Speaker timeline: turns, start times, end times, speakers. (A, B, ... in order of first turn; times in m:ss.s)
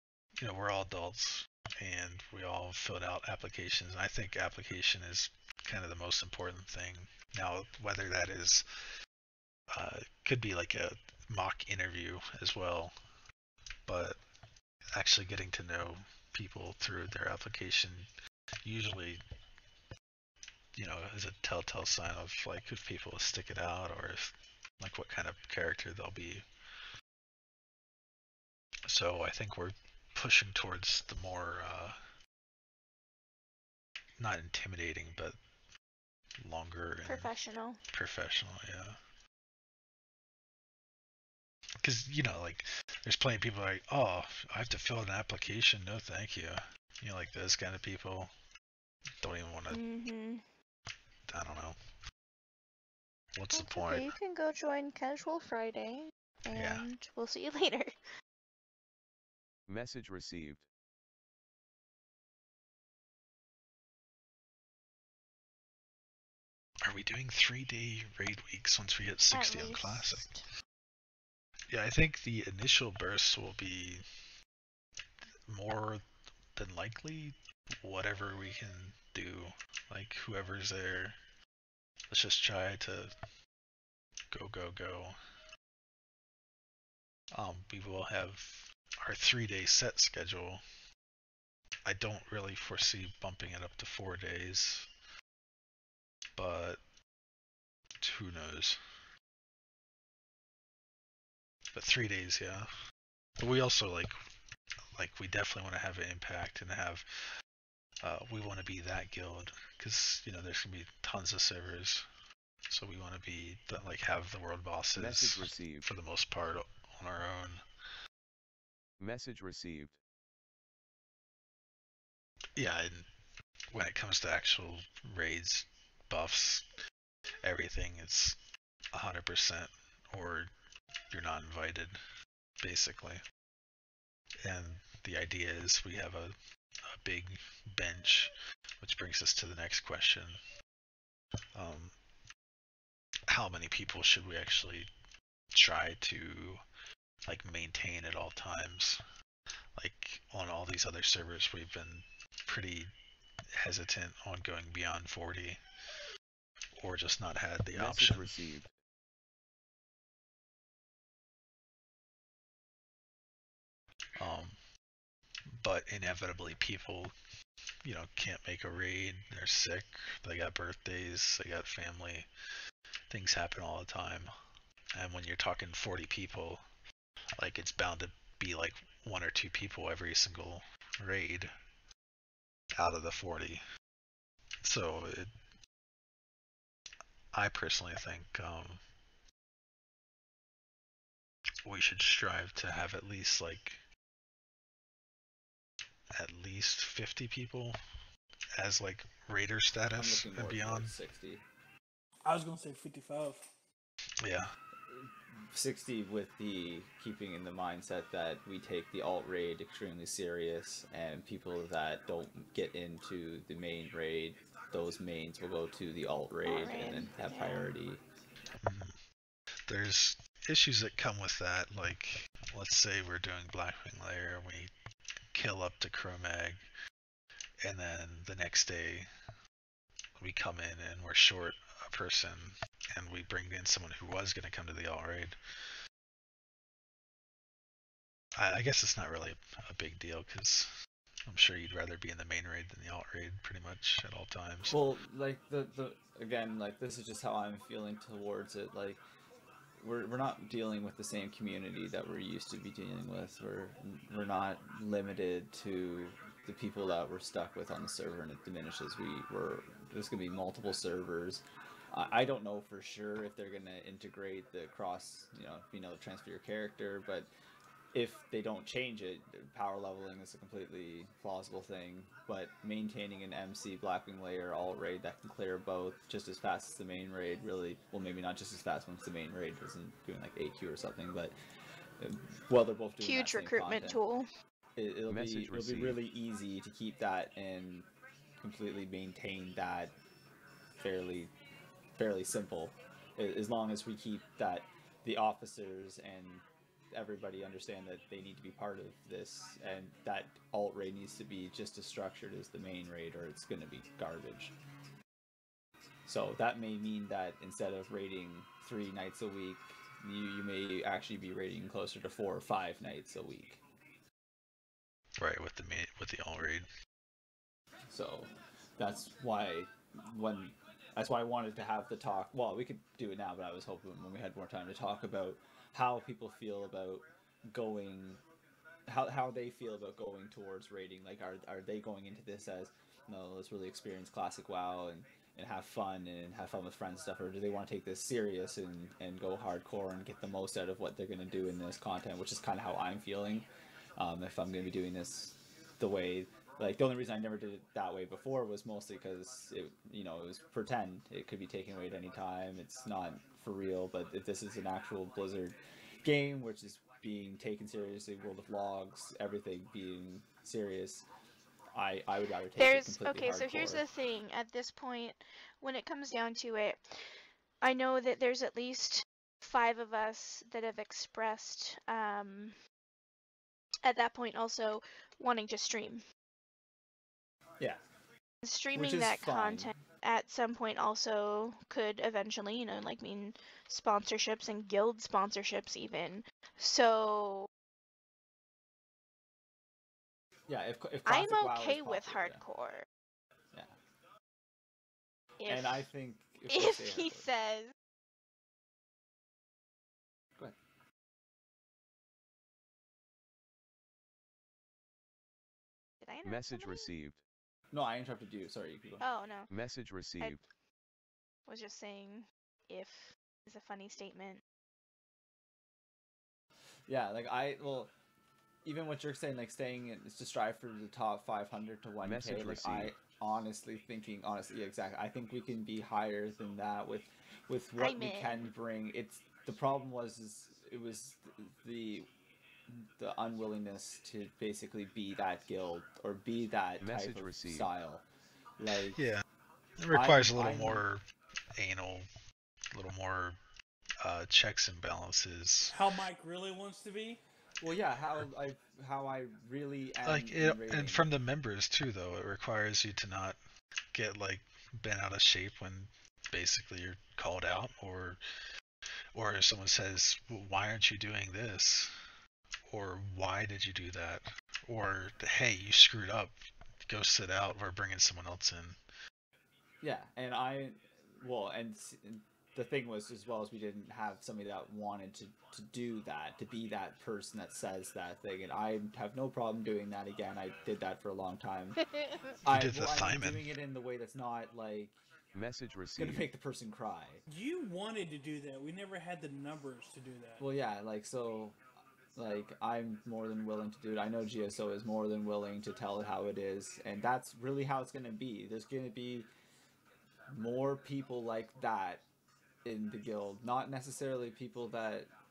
0:00.4-0:08.6 A
0:09.7-0:12.9 A
0:13.8-0:14.2 A
0:14.9-0:18.1 A
0:18.6-0:19.2 A
0:20.7-0:26.4 A
0:28.9-0:32.0 A
0:34.2-0:35.4 A
0:36.4-0:37.3 A
0:37.0-0:37.8 B
0:37.9-0:39.0 A
0:41.8-0:48.3 A
0:49.2-0:49.8 A
0:49.7-0:50.4 B
0:51.3-0:51.8 A
0:53.4-0:54.1 A
0:53.5-0:57.9 B
0:56.5-0:56.8 A
0:59.7-1:00.6 C
1:06.8-1:10.2 A
1:09.3-1:10.4 B
1:11.7-1:14.0 A
1:15.5-1:16.0 A
1:16.5-1:21.2 A
1:22.1-1:23.1 A
1:24.3-1:25.2 A
1:27.3-1:30.6 A
1:31.8-1:34.9 A
1:36.4-1:36.8 A
1:38.0-1:38.8 A
1:41.7-1:42.7 A
1:43.4-1:44.1 A
1:44.9-1:47.0 A
1:48.0-1:52.1 A
1:52.7-1:57.6 A
1:55.0-1:55.8 C
1:59.0-1:59.9 C
2:02.6-2:03.1 A
2:03.7-2:06.7 A
2:07.4-2:08.4 A
2:08.9-2:10.5 A
2:11.1-2:12.0 A
2:12.6-2:13.2 A
2:14.4-2:20.4 A
2:21.5-2:22.0 A
2:23.3-2:24.9 A
2:25.5-2:26.6 A
2:27.2-2:29.0 A
2:29.8-2:32.9 A
2:33.5-2:35.6 A
2:36.8-2:38.3 A
2:37.7-2:38.7 C
2:44.2-2:44.6 A
2:45.5-2:47.2 A
2:47.8-2:52.3 A
2:53.1-2:54.3 A
2:54.9-2:56.6 A
2:57.4-3:01.5 A
3:02.7-3:03.6 A
3:04.6-3:05.3 A
3:07.3-3:08.8 A
3:11.6-3:13.8 A
3:16.1-3:17.8 A
3:18.6-3:20.9 A
3:20.0-3:21.4 D
3:22.2-3:23.5 E
3:24.2-3:24.5 A
3:24.9-3:38.0 D
3:36.4-3:37.7 B
3:38.6-3:39.0 A
3:39.7-3:44.7 A
3:45.3-3:46.7 A
3:47.6-3:49.1 A
3:50.2-3:55.4 A
3:58.4-4:00.7 A
4:01.2-4:04.8 A
4:04.7-4:09.0 D
4:09.8-4:27.3 D
4:27.9-4:41.3 D
4:42.0-4:44.0 D
4:43.0-4:44.3 B
4:44.8-4:47.9 D
4:45.1-4:46.0 C
4:48.4-4:50.0 D
4:50.8-4:51.3 D
4:52.0-5:04.6 D
5:06.0-5:13.6 D
5:15.2-5:16.7 A
5:17.9-5:28.2 D
5:28.9-6:01.1 D
6:01.7-6:03.8 D
6:02.6-6:06.8 B
6:07.6-6:12.5 B
6:13.8-6:16.0 B
6:18.4-6:27.5 B
6:18.7-6:19.7 D
6:30.5-6:32.4 D
6:31.0-6:32.8 B
6:35.4-6:35.8 B
6:35.5-6:37.3 D
6:36.5-6:37.7 B
6:46.0-6:46.9 B
6:46.2-6:47.2 C
6:47.7-6:49.0 D
6:49.0-6:49.5 B
6:49.5-6:50.4 C
6:51.5-6:54.4 B
6:56.9-6:57.9 D
6:58.6-7:12.1 D
7:02.0-7:02.9 C
7:07.8-7:08.5 B
7:12.7-7:18.0 D
7:16.8-7:17.7 C
7:18.6-7:19.0 D
7:18.9-7:19.2 A
7:19.8-7:21.0 A
7:19.9-7:20.8 D
7:21.5-7:22.1 A
7:22.7-7:23.4 A
7:24.0-7:25.7 A
7:25.7-7:27.2 E
7:27.6-7:31.1 D
7:30.0-7:33.4 A
7:33.9-7:38.2 A
7:39.1-7:41.9 A
7:42.7-7:48.8 A
7:49.8-8:01.8 D
8:02.4-8:04.9 D
8:02.5-8:03.5 A
8:05.3-8:06.3 C
8:06.0-8:07.2 D
8:07.3-8:10.4 E
8:10.4-8:11.6 D
8:12.1-8:19.3 D
8:20.3-8:22.0 D
8:22.6-8:25.1 D